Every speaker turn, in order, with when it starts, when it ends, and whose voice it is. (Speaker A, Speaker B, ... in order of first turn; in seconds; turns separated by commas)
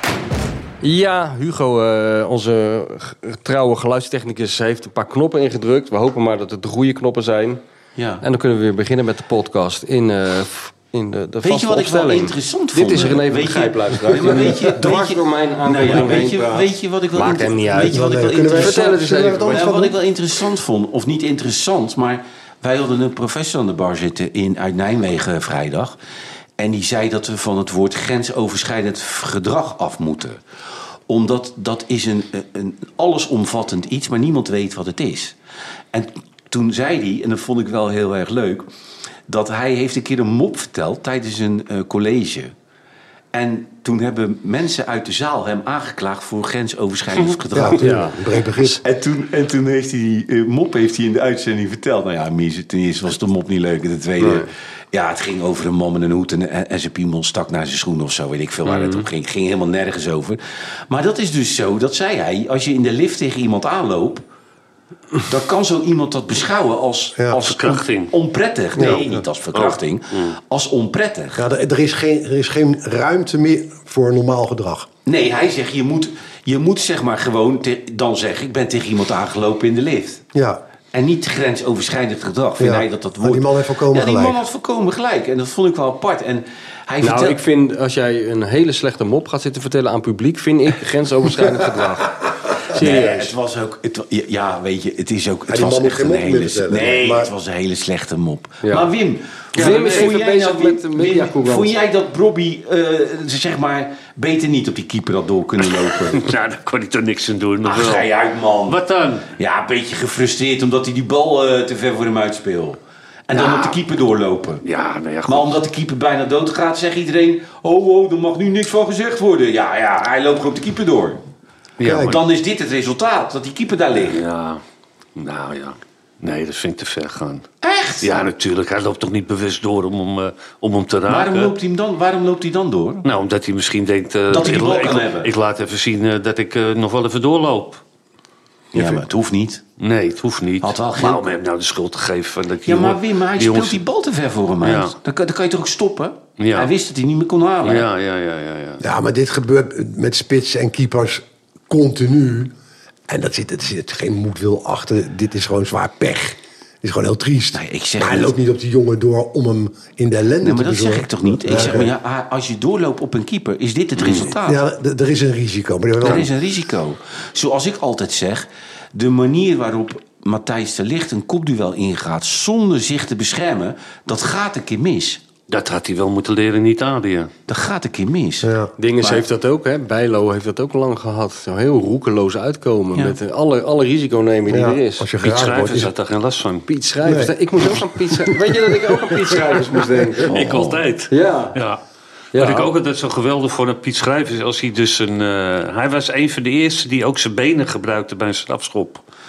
Speaker A: 0.8-7.6, Speaker B: 8.0-8.2, Speaker A: 8.2-19.7, Speaker B: 11.4-26.0, Speaker C: 14.8-15.1, Speaker C: 17.8-20.0, Speaker B: 26.6-30.4, Speaker B: 31.1-35.4, Speaker B: 35.9-38.7, Speaker B: 39.3-42.5, Speaker B: 43.3-48.0, Speaker D: 47.1-47.4, Speaker C: 47.5-48.8, Speaker A: 47.8-48.6, Speaker B: 48.6-64.2, Speaker A: 54.2-54.5, Speaker B: 65.2-71.4, Speaker D: 67.4-68.2, Speaker D: 68.7-70.4, Speaker C: 68.8-69.2, Speaker C: 71.4-74.9, Speaker B: 75.1-80.2, Speaker C: 80.3-80.6, Speaker B: 80.9-87.4, Speaker C: 82.6-84.4, Speaker A: 87.0-93.3, Speaker B: 92.7-106.3, Speaker C: 95.5-97.3, Speaker A: 98.6-98.9, Speaker A: 99.5-101.8, Speaker D: 99.6-100.1, Speaker D: 105.6-108.1, Speaker B: 107.7-114.6, Speaker D: 108.7-109.3, Speaker D: 113.3-113.8, Speaker D: 114.6-115.6, Speaker B: 115.3-121.2, Speaker D: 121.8-122.2, Speaker C: 121.8-122.2, Speaker B: 121.9-124.2, Speaker D: 124.1-124.6, Speaker D: 125.2-127.5, Speaker B: 127.6-128.2, Speaker D: 128.0-131.6, Speaker B: 131.1-133.1, Speaker D: 133.0-137.8, Speaker B: 134.3-135.3, Speaker B: 138.7-139.6, Speaker D: 139.8-143.8, Speaker B: 140.6-141.3, Speaker B: 142.7-147.9, Speaker D: 144.6-145.0, Speaker D: 146.4-146.7, Speaker D: 147.6-148.8, Speaker C: 148.8-152.5, Speaker C: 153.1-161.9, Speaker B: 157.5-158.3, Speaker B: 160.4-164.6, Speaker D: 164.0-164.3, Speaker C: 164.3-166.3, Speaker B: 166.0-175.2, Speaker D: 175.5-177.3, Speaker B: 177.5-179.2, Speaker C: 178.4-178.7, Speaker A: 178.8-185.1, Speaker C: 184.5-185.9, Speaker D: 185.2-186.7, Speaker A: 186.7-190.4, Speaker C: 187.1-189.8, Speaker D: 190.2-191.8, Speaker B: 190.2-190.8, Speaker A: 191.1-191.6, Speaker A: 192.3-192.7, Speaker D: 192.3-199.0